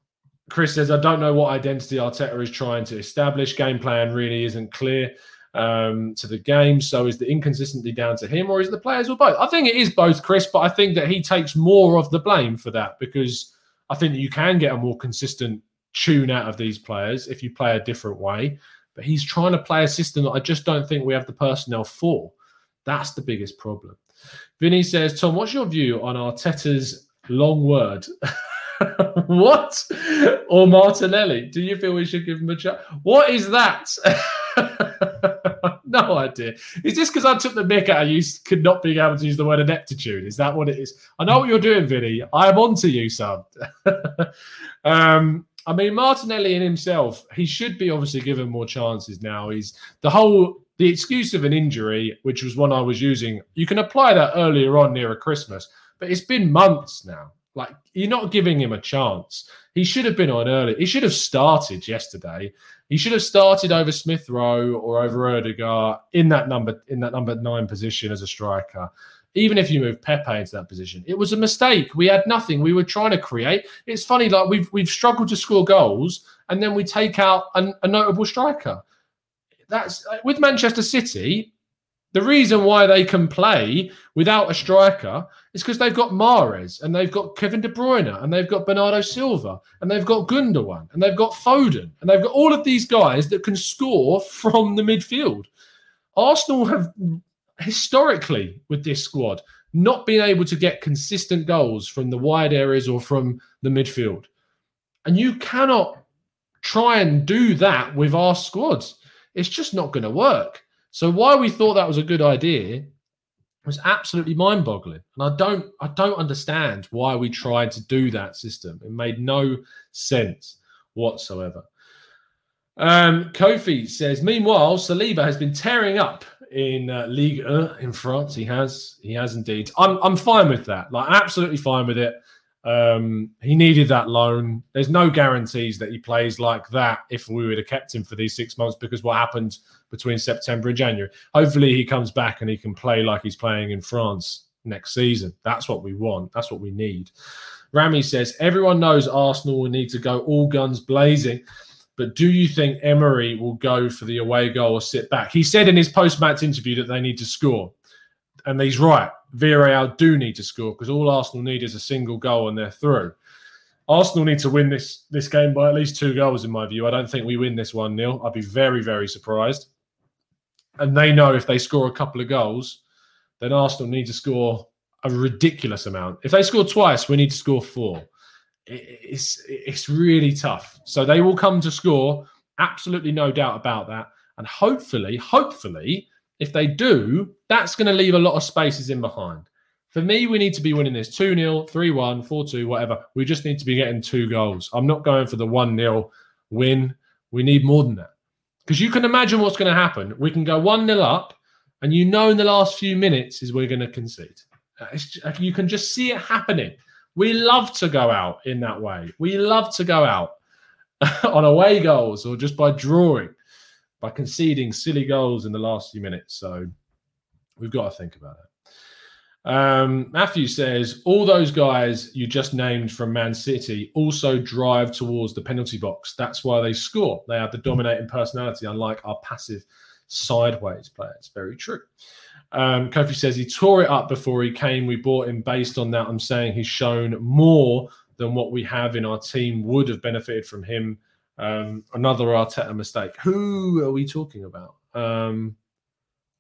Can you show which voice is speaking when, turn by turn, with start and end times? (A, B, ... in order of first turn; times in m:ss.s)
0:00.5-0:22.3 A
0:22.8-0:24.0 A
0:24.6-0:28.1 A
0:28.8-0:44.3 A
0:44.8-1:18.8 A
1:19.7-1:21.5 A
1:22.1-1:35.5 A
1:36.2-1:44.3 A
1:45.0-1:46.0 A
1:46.6-1:52.9 A
1:53.6-2:01.6 A
2:02.8-2:27.1 A
2:27.7-2:31.4 A
2:32.0-2:37.7 A
2:38.4-2:43.2 A
2:43.9-2:49.7 A
2:50.8-2:52.8 A
2:53.4-2:58.1 A
2:58.7-3:18.1 A
3:18.6-3:30.3 A
3:31.0-3:33.4 A
3:34.0-3:36.7 A
3:37.6-3:38.5 A
3:39.4-3:51.9 A
3:52.5-4:05.6 A